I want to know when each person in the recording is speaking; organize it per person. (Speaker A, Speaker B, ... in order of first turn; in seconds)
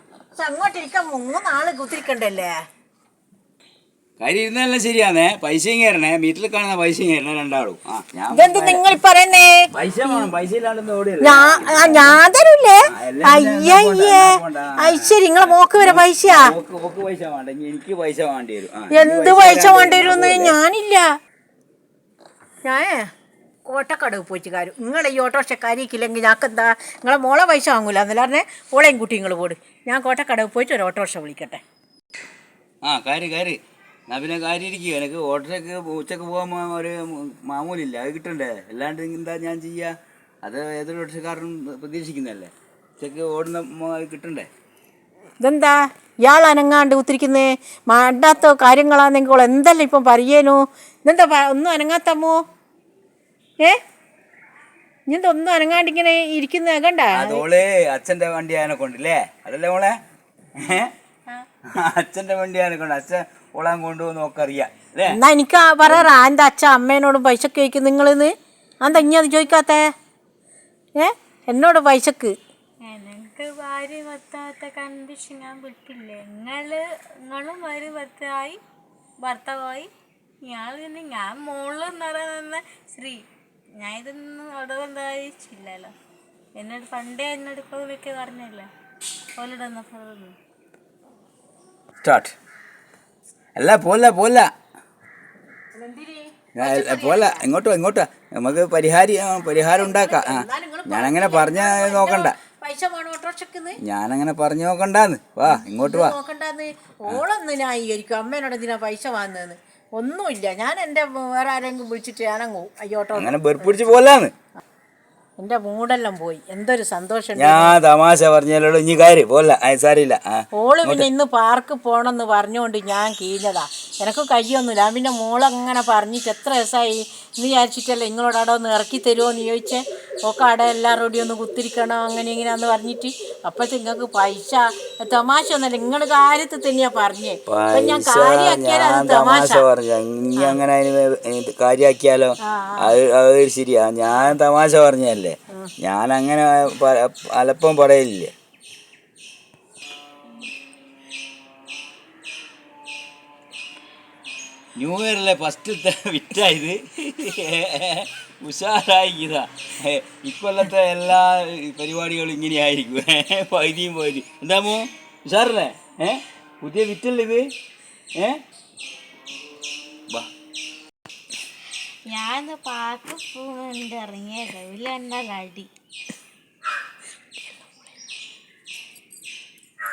Speaker A: 0.4-2.5, 8.3-10.3, 11.2-16.5, 18.9-21.1, 22.6-23.1, 23.7-31.6, 45.4-52.4, 55.1-57.4, 65.1-69.8, 71.0-72.3, 95.7-97.4, 99.5-103.8, 105.4-114.0, 115.4-117.8, 120.5-139.7, 142.4-143.0
Speaker B: 4.2-8.8, 9.7-12.2, 12.9-20.6, 32.8-44.5, 57.1-60.0, 60.6-60.9, 61.7-65.2, 65.8-66.1, 92.0-92.3, 93.6-94.5, 96.5-102.3, 103.8-106.2, 113.2-114.3, 117.4-121.1, 137.5-148.3, 154.8-167.5, 168.2-168.4
Speaker C: 72.8-78.6, 79.2-79.9, 80.4-83.2, 83.8-85.9, 86.6-88.7, 89.4-90.3, 172.1-175.7